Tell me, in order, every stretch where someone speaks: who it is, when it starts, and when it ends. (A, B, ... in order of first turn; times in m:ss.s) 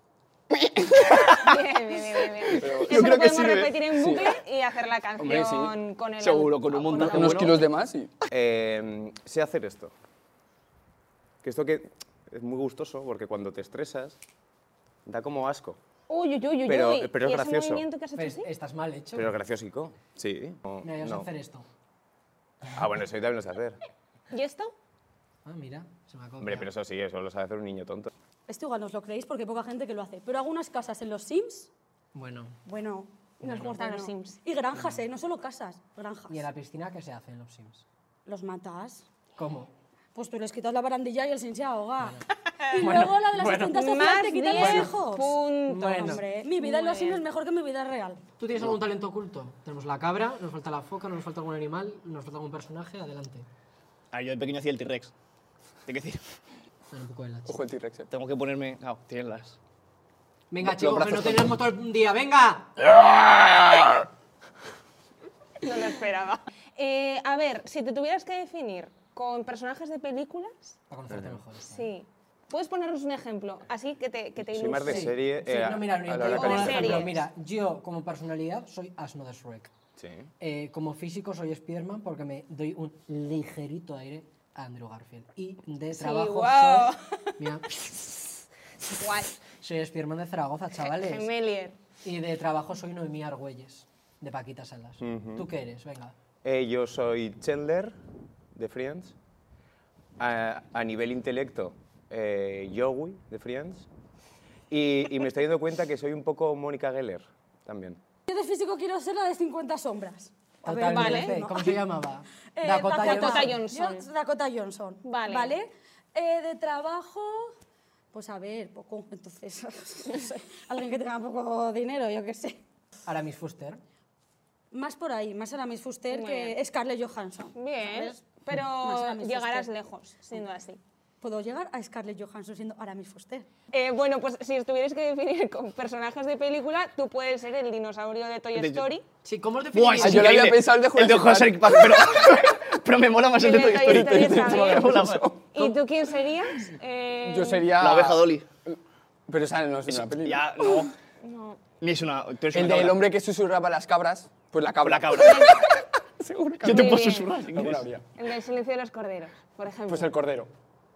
0:00.5-0:01.4 A
0:01.2-0:07.6 B
0:02.5-0:04.4 A
0:05.2-0:05.8 A
0:06.2-0:07.6 C
0:06.9-0:08.1 A
0:08.3-0:09.9 D
0:11.4-0:14.2 D
0:15.1-0:15.8 D
0:16.1-0:18.5 B
0:16.6-0:17.8 D
0:18.2-0:19.4 E
0:19.1-0:21.3 D
0:20.8-0:21.7 E
0:22.7-0:23.8 D
0:24.3-0:24.7 B
0:25.4-0:26.7 E
0:26.4-0:28.1 D
0:28.5-0:31.7 F
0:32.1-0:32.6 E
0:32.6-0:36.4 F
0:33.4-0:34.4 B
0:33.4-0:33.7 E
0:36.3-0:37.8 E
0:38.2-0:39.1 F
0:39.4-0:39.7 E
0:40.1-0:48.2 F
0:42.8-0:43.8 E
0:43.6-0:47.2 B
0:44.5-0:45.0 E
0:45.7-0:46.2 E
0:48.4-0:53.5 E
0:54.1-0:55.1 C
0:55.9-0:56.2 C
0:56.9-0:57.6 E
0:57.5-0:58.1 A
0:58.1-0:59.6 C
1:00.5-1:02.7 E
1:00.8-1:01.4 A
1:02.9-1:03.9 A
1:05.6-1:10.8 B
1:10.9-1:11.9 E
1:11.1-1:11.4 D
1:11.7-1:15.1 B
1:14.4-1:17.1 D
1:14.8-1:19.7 E
1:16.1-1:16.8 A
1:16.2-1:17.2 B
1:20.0-1:20.3 D
1:20.4-1:28.1 E
1:26.0-1:27.3 B
1:28.9-1:29.4 B
1:29.6-1:31.3 E
1:30.8-1:31.8 B
1:32.0-1:36.1 E
1:35.0-1:35.5 D
1:36.4-1:38.0 D
1:38.6-1:39.2 D
1:40.2-1:43.9 D
1:44.7-1:48.0 D
1:48.3-1:51.8 F
1:50.6-1:53.6 E
1:50.7-1:51.4 B
1:52.6-1:57.5 F
1:53.0-1:54.1 B
1:55.0-1:55.5 B
1:58.1-2:02.6 F
2:03.0-2:03.8 E
2:04.7-2:09.7 F
2:06.1-2:06.6 B
2:07.6-2:10.8 B
2:11.2-2:13.5 F
2:13.7-2:19.0 B
2:18.6-2:18.9 C
2:19.2-2:20.5 E
2:19.7-2:25.7 C
2:20.0-2:22.4 A
2:23.4-2:25.0 B
2:23.6-2:25.5 A
2:25.5-2:27.7 B
2:27.2-2:28.8 A
2:27.8-2:28.5 C
2:29.3-2:30.9 A
2:29.9-2:30.9 C
2:31.2-2:31.6 B
2:31.8-2:33.1 C
2:32.5-2:38.0 A
2:34.8-2:35.7 C
2:35.2-2:35.6 B
2:36.6-2:37.9 C
2:36.6-2:37.4 B
2:38.2-2:40.1 B
2:39.9-2:40.5 A